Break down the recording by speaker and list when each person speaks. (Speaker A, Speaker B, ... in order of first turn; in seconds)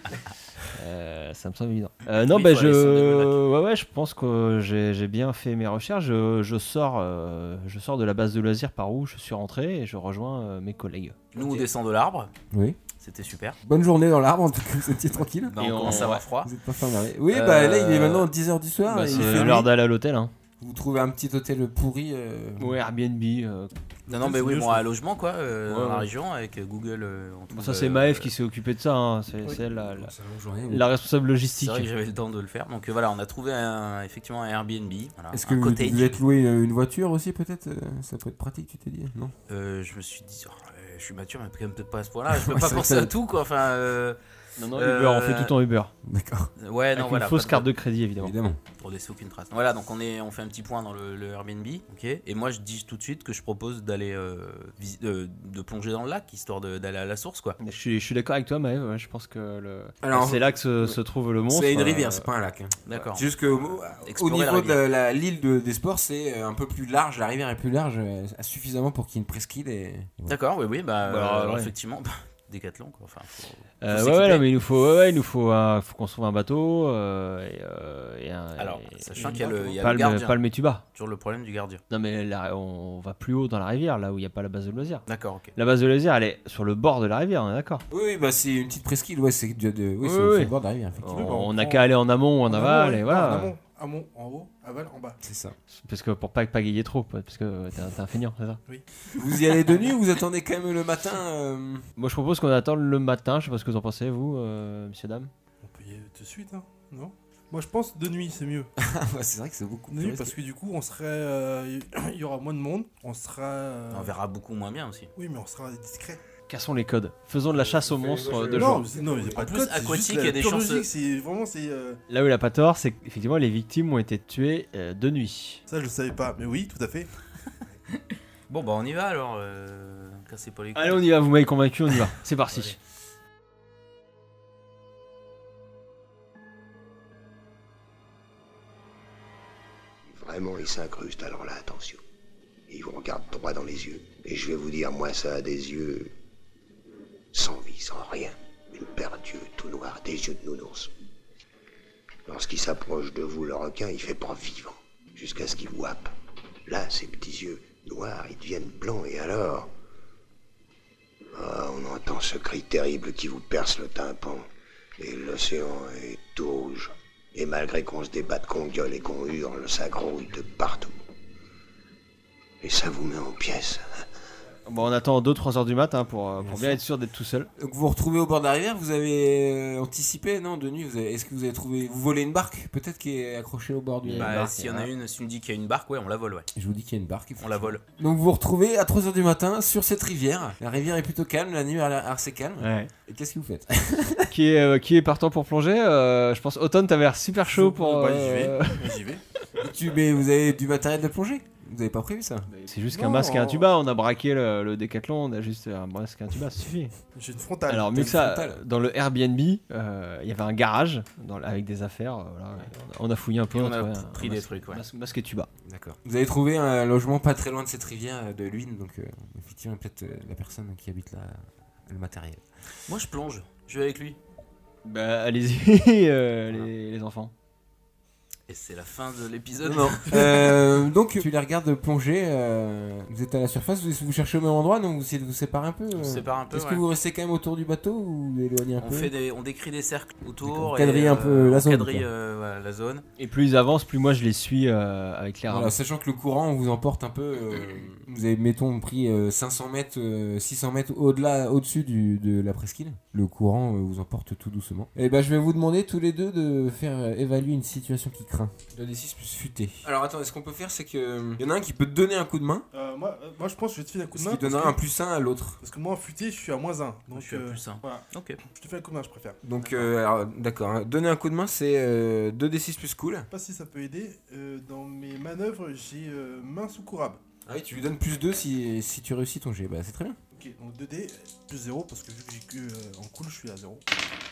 Speaker A: 0.7-11.2, 15.6-16.2, 17.3-18.3, 18.9-20.3, 22.6-23.7, 25.7-26.1, 27.5-30.1, 30.7-31.9, 44.6-45.9, 47.0-48.3, 57.6-62.3, 71.1-71.7, 73.8-80.8, 81.9-87.8, 90.0-93.5, 95.7-98.6, 102.0-105.3, 116.5-118.9, 122.1-125.6, 130.8-132.8, 174.7-177.5, 184.0-184.9, 192.6-192.9, 194.3-199.0, 202.5-206.9, 207.7-215.5, 224.8-227.3, 243.2-245.8
Speaker B: 2.1-3.4, 11.3-12.3, 13.0-13.6, 15.4-16.5, 19.2-19.4, 24.1-28.3, 31.6-36.2, 39.5-44.2, 44.7-45.5, 46.6-47.7, 48.8-57.6, 62.9-64.8, 70.3-74.5, 78.6-81.8, 85.1-85.5, 113.9-115.1, 119.4-120.9, 127.9-131.1, 132.5-132.8, 184.2-186.5, 187.4-187.8, 213.5-214.8, 222.9-224.2, 228.5-230.6, 235.9-236.8, 238.8-243.0, 267.1-268.4, 269.6-269.9
Speaker C: 11.3-11.7, 12.5-12.8, 13.7-19.7, 20.6-22.8, 29.6-30.9, 35.3-39.3, 42.3-43.1, 46.0-46.5, 48.2-48.6, 60.0-61.0, 61.5-70.4, 79.3-79.7, 87.9-91.4, 95.2-95.6, 99.1-101.8, 108.8-110.3, 117.5-119.5, 176.4-176.8, 177.6-184.6, 186.6-194.3, 199.6-202.5, 207.9-208.6, 215.7-222.4, 229.6-239.1, 240.4-242.1, 245.5-262.7, 264.1-265.6, 269.4-273.3, 277.5-280.2
Speaker D: 24.2-24.8, 79.2-79.5, 91.1-91.9, 92.5-95.2, 105.6-108.7, 109.9-114.1, 115.2-116.2, 118.5-122.0, 125.7-127.1, 197.5-199.2, 202.9-203.7, 207.2-207.9, 262.7-264.8, 265.6-269.4, 273.3-277.2, 280.3-283.8
Speaker E: 140.1-142.0, 142.7-146.1, 147.3-150.9, 152.3-156.1, 156.7-159.7, 161.3-164.5, 165.0-170.9, 172.6-174.0